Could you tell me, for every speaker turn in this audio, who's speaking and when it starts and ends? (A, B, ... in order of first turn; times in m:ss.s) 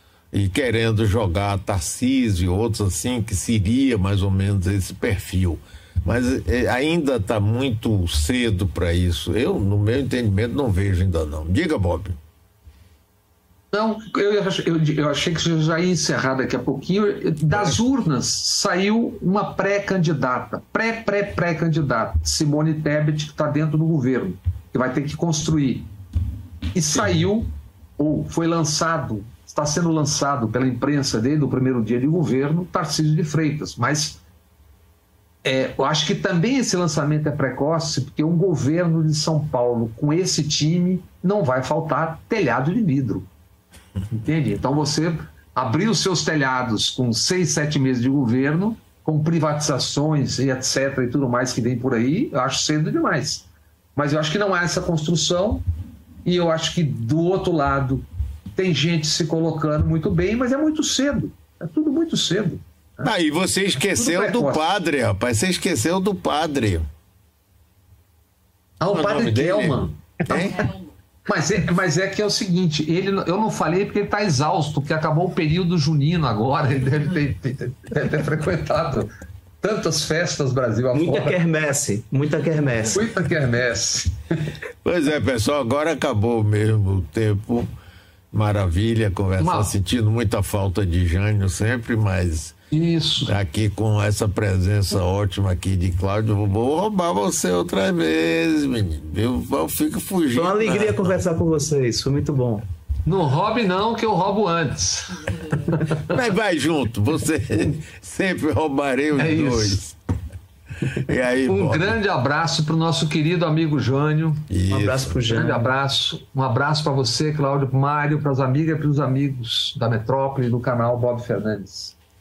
0:00.3-0:12.2 A
0:13.7-0:25.9 B
0:26.7-0:34.2 B
0:27.0-0:27.2 A
0:35.4-0:43.3 B
0:44.1-0:55.6 B
0:56.2-1:03.1 B
1:03.0-1:06.9 A
1:03.8-1:04.7 B
1:08.8-1:10.7 B
1:08.9-1:10.7 A
1:11.3-1:19.1 B
1:19.6-1:21.4 B
1:20.9-1:23.1 C
1:22.9-1:24.2 B
1:24.8-1:27.7 A
1:28.3-1:32.6 A
1:29.4-1:29.7 B
1:32.7-1:33.3 B
1:33.2-1:41.2 A
1:40.3-1:42.6 C
1:43.1-1:46.2 B
1:46.0-1:50.0 A
1:49.2-1:49.8 B
1:50.8-1:52.0 A
1:51.5-1:54.4 B
1:54.5-1:55.4 A
1:54.7-1:55.7 C
1:55.3-2:02.0 B